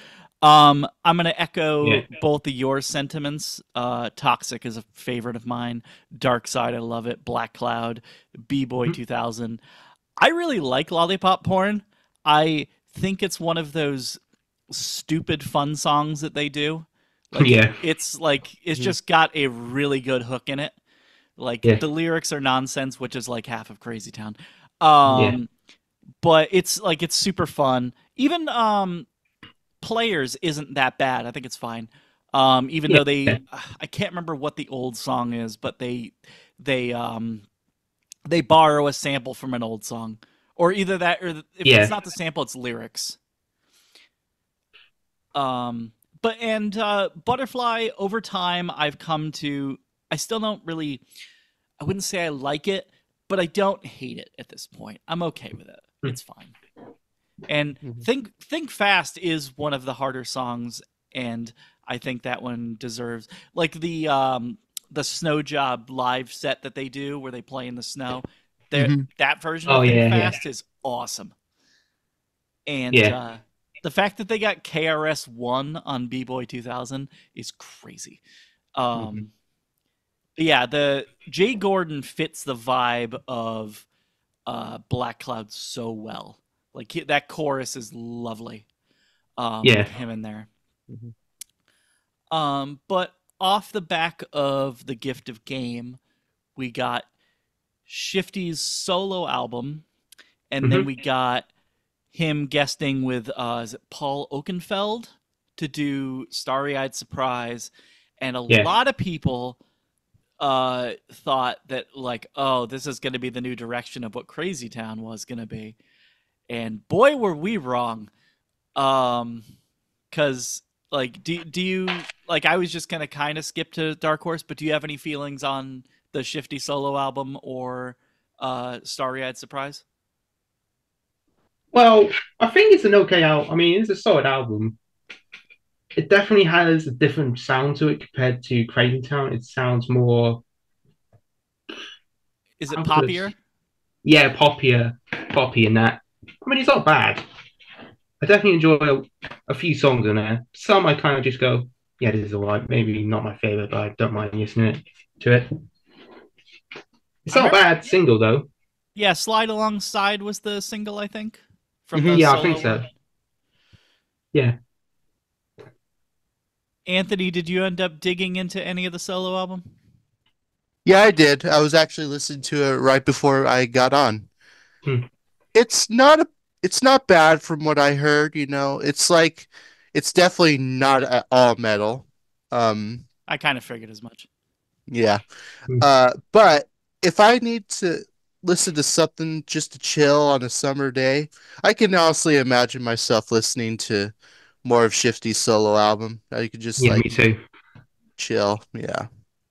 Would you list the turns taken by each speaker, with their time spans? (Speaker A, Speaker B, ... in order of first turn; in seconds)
Speaker A: 0.4-9.6, 10.2-14.2, 14.7-20.8, 21.4-25.5, 26.2-29.1, 29.8-37.5, 38.3-43.2, 45.4-51.0, 51.8-56.6, 57.5-71.3, 72.7-78.2, 78.8-79.3, 80.4-83.9, 84.5-88.7, 89.4-90.5, 92.3-96.0, 96.6-97.1, 97.9-99.8, 100.5-101.5, 102.1-109.6, 110.4-115.8, 116.5-118.1, 118.8-119.4, 120.1-129.8, 142.6-143.4, 157.3-157.6, 159.0-162.8, 166.9-169.6, 183.3-184.3
Speaker B: 17.4-17.8, 25.1-25.4, 32.9-33.4, 41.6-41.9, 69.7-70.4, 89.6-89.9, 131.7-134.8, 136.0-140.4, 142.7-143.3, 144.0-147.2, 148.2-155.6, 157.2-158.5, 162.0-162.9, 196.8-197.4
Speaker C: 68.8-69.1, 79.0-79.2, 170.8-174.3, 175.6-183.1, 184.9-185.2, 185.8-194.1, 194.6-197.1, 198.2-199.1